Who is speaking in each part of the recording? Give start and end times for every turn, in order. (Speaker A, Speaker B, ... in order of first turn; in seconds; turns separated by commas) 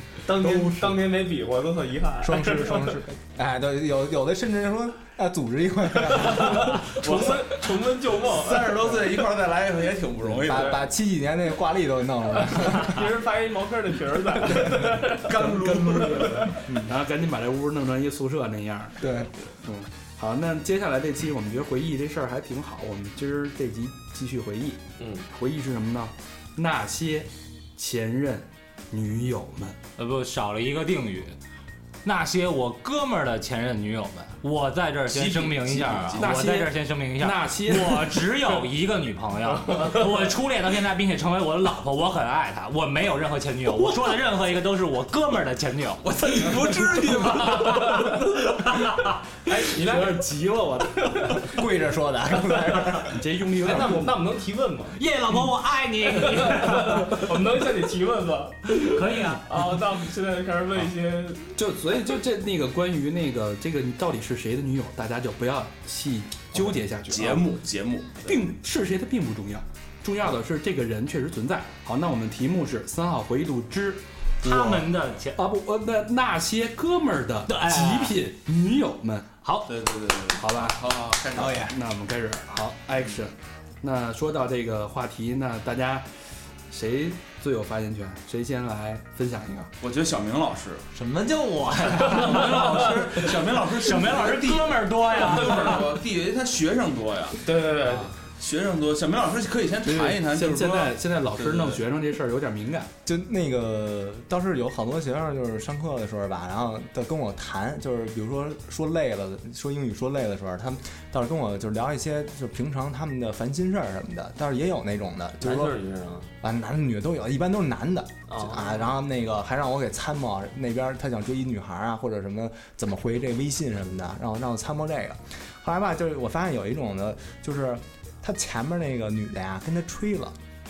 Speaker A: 0.2-3.0, Speaker B: 0.4-0.7, Speaker B: 2.2-6.9, Speaker A: 6.1-9.0, Speaker C: 8.3-10.8, Speaker B: 10.4-13.1, Speaker A: 10.5-10.8, Speaker A: 12.4-15.3, Speaker C: 15.2-16.6, Speaker D: 15.3-29.8, Speaker B: 16.7-16.9, Speaker B: 19.0-19.3, Speaker A: 25.0-25.3, Speaker E: 30.0-31.4, Speaker E: 32.0-46.1, Speaker C: 35.1-36.4, Speaker D: 36.2-38.3, Speaker C: 46.0-48.4, Speaker A: 46.9-48.9, Speaker A: 49.5-51.6, Speaker D: 49.6-51.2, Speaker B: 51.4-53.3, Speaker A: 52.5-52.9, Speaker D: 53.1-54.1, Speaker A: 53.6-55.0, Speaker E: 55.0-57.3, Speaker A: 56.2-61.6, Speaker E: 58.8-59.5, Speaker D: 61.6-67.5, Speaker C: 66.5-68.4, Speaker D: 68.2-74.0, Speaker E: 74.4-75.4, Speaker D: 75.4-79.3, Speaker E: 77.5-78.2, Speaker E: 79.4-79.7, Speaker C: 79.7-81.7, Speaker D: 80.4-80.8, Speaker B: 81.4-81.7, Speaker D: 81.7-89.7, Speaker C: 89.8-90.9, Speaker B: 90.9-93.0, Speaker C: 92.1-97.4, Speaker A: 92.1-92.7, Speaker E: 93.6-96.0, Speaker A: 97.4-98.1, Speaker C: 98.3-101.8, Speaker D: 99.8-102.9, Speaker B: 103.0-115.8, Speaker A: 115.4-116.3, Speaker B: 116.4-130.4, Speaker A: 118.3-118.9